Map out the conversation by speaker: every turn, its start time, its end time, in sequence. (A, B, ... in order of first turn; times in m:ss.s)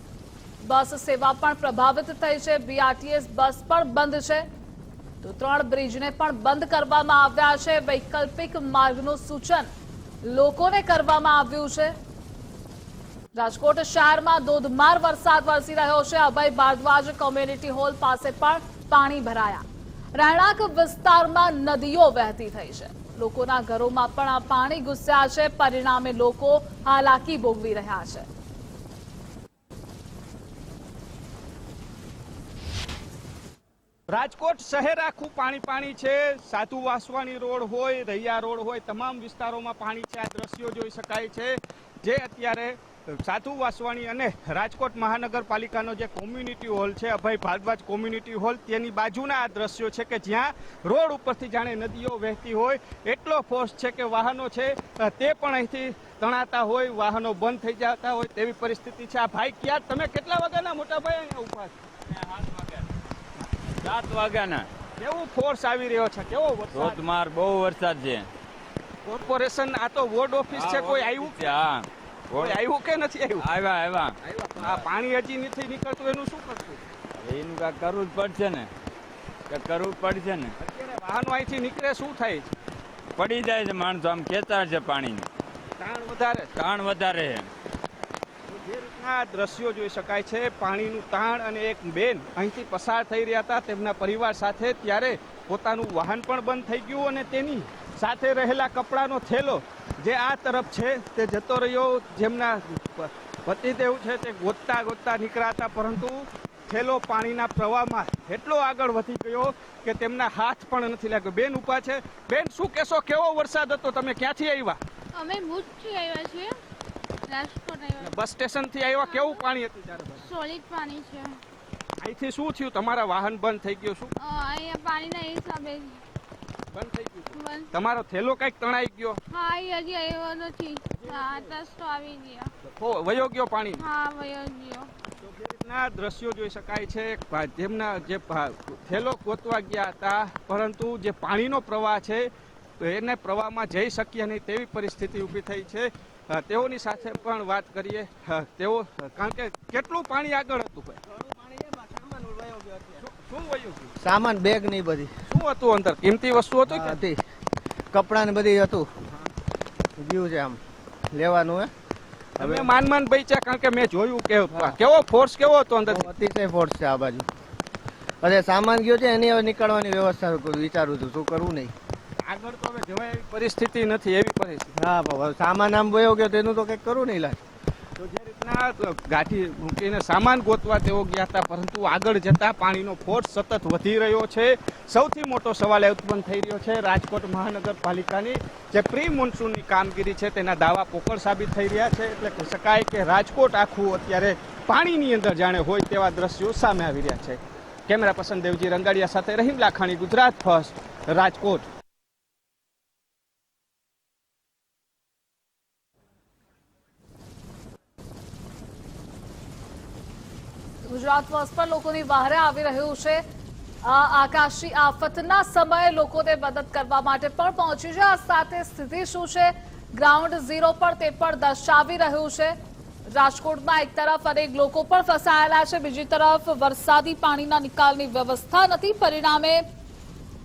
0:00.6-0:04.4 A
0:05.2-0:09.7 A
0:10.2-0:11.9 A
0:13.3-0:28.3 A
0:34.1-1:01.7 B
1:02.1-1:02.8 C
1:03.8-1:04.7 C
1:05.0-1:07.0 B
1:06.7-1:08.3 C
1:09.0-1:11.6 B
1:10.5-1:12.6 C
1:12.3-1:13.4 B
1:13.4-1:14.8 C
1:14.6-1:16.8 B
1:17.2-1:18.7 C
1:19.5-1:20.5 C
1:20.6-1:22.5 B
1:23.2-1:25.3 C
1:25.8-1:26.5 B
1:26.6-1:27.5 C
1:28.5-1:54.8 B
1:55.1-1:56.5 D
1:57.3-1:58.1 D
1:58.0-2:00.2 B
1:59.0-1:59.4 D
2:00.2-2:01.4 D
2:02.0-2:04.1 B
2:04.2-2:06.0 D
2:06.7-2:09.2 B
2:07.3-2:07.7 D
2:09.3-2:12.5 D
2:11.0-2:11.5 B
2:12.7-2:13.8 B
2:13.8-2:14.9 D
2:15.2-2:22.3 B
2:22.8-2:31.0 B
2:31.1-2:33.0 E
2:33.0-2:33.9 B
2:34.0-2:35.1 E
2:35.3-2:37.0 B
2:36.7-2:37.2 E
2:37.9-2:38.9 E
2:40.0-2:40.6 E
2:41.1-2:41.7 E
2:42.4-2:42.7 E
2:42.4-2:46.1 B
2:45.8-2:47.3 E
2:48.2-2:51.7 E
2:52.2-2:54.7 B
2:54.8-2:57.4 E
2:58.0-3:21.6 B
3:30.8-3:33.2 A
3:33.8-3:42.5 A
3:43.1-3:49.6 A